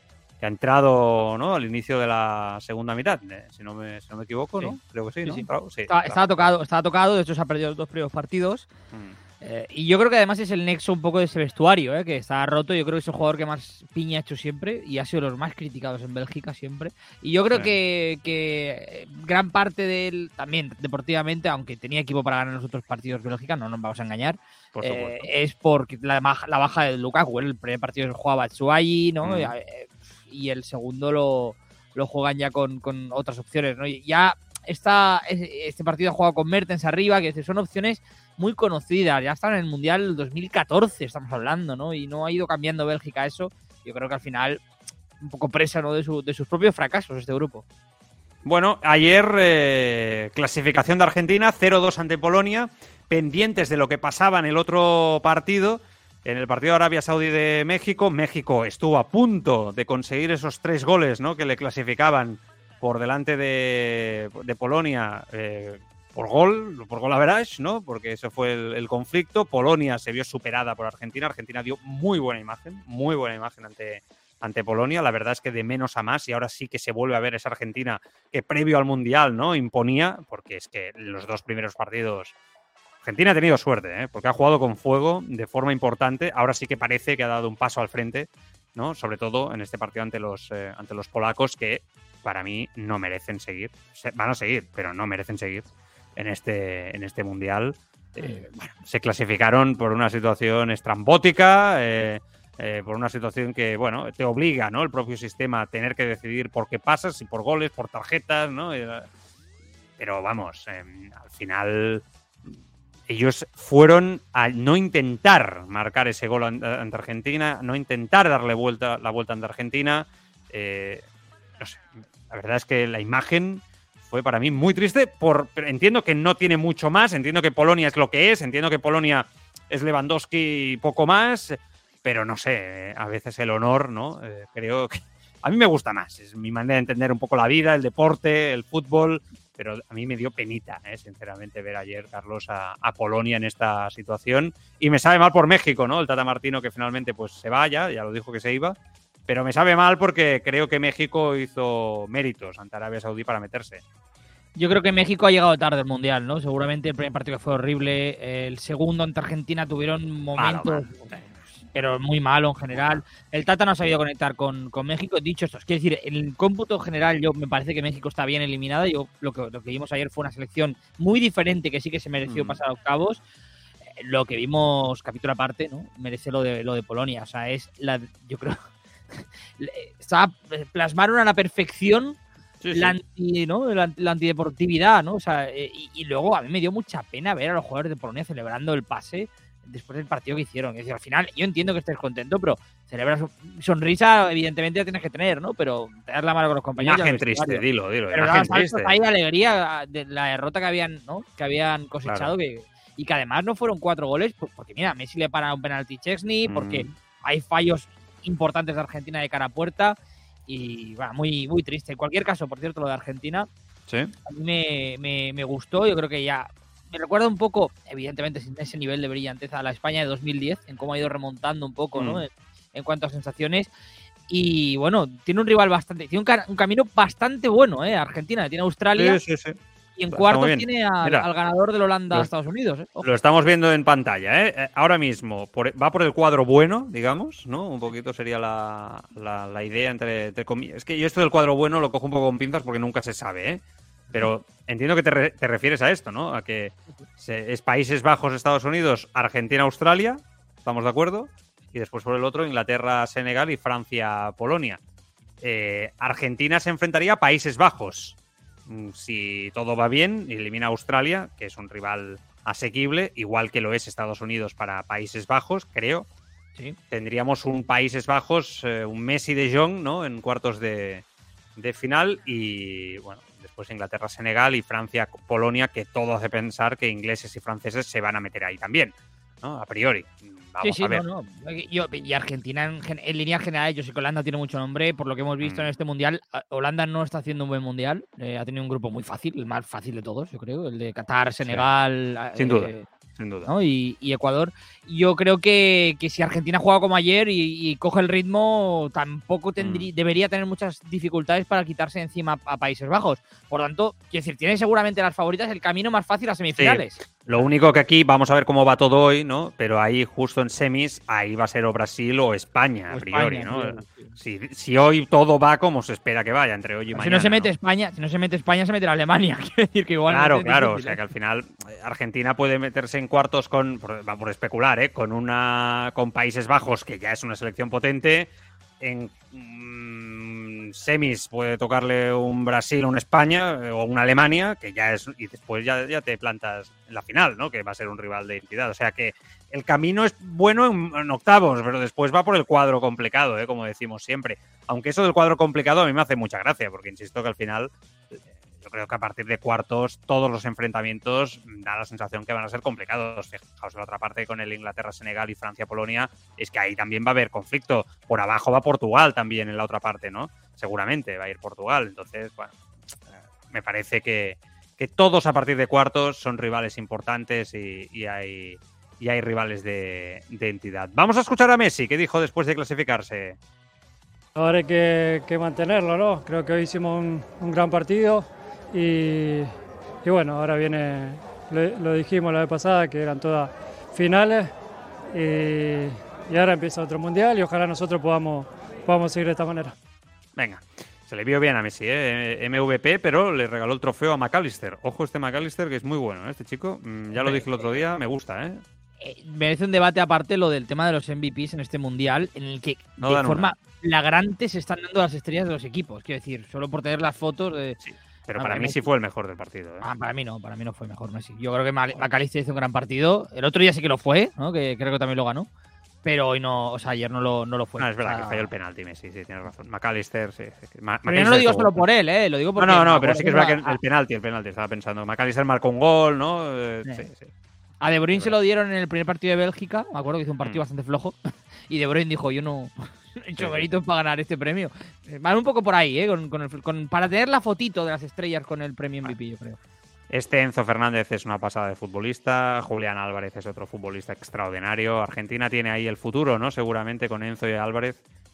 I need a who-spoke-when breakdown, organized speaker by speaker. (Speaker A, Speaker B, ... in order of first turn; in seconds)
Speaker A: 0.4-6.4, 24.7-25.3, 29.2-29.5, 48.4-82.3, 83.0-109.1, 110.0-112.5, 113.1-121.1, 121.6-153.8, 160.3-161.2, 162.7-163.0, 172.3-172.6, 182.6-183.0, 196.8-199.0, 202.0-202.3, 206.5-206.9, 213.9-214.1, 221.9-222.2, 228.9-229.6, 230.1-231.3, 233.0-254.8, 255.4-266.1, 266.9-271.0, 271.6-281.0, 285.4-285.7, 292.4-293.5, 299.6-299.9, 306.6-317.5, 320.1-362.5, 363.5-373.4, 390.4-398.6, 403.0-403.5, 407.8-409.9, 417.8-421.8, 422.6-427.3, 433.4-433.7, 440.1-448.0
Speaker B: 4.6-8.7, 9.4-44.6, 45.2-47.6, 98.2-98.4, 154.6-173.2, 174.0-178.6, 179.1-182.2, 182.7-213.5, 214.2-223.7, 224.3-229.2, 229.9-233.1, 280.6-292.9, 293.4-307.4, 312.9-314.1, 316.9-321.0, 397.1-397.4, 399.0-407.8, 408.4-408.8, 409.8-415.5, 416.0-418.5, 421.1-423.8, 427.8-431.1, 431.7-439.6
Speaker C: 374.3-384.6, 385.1-389.7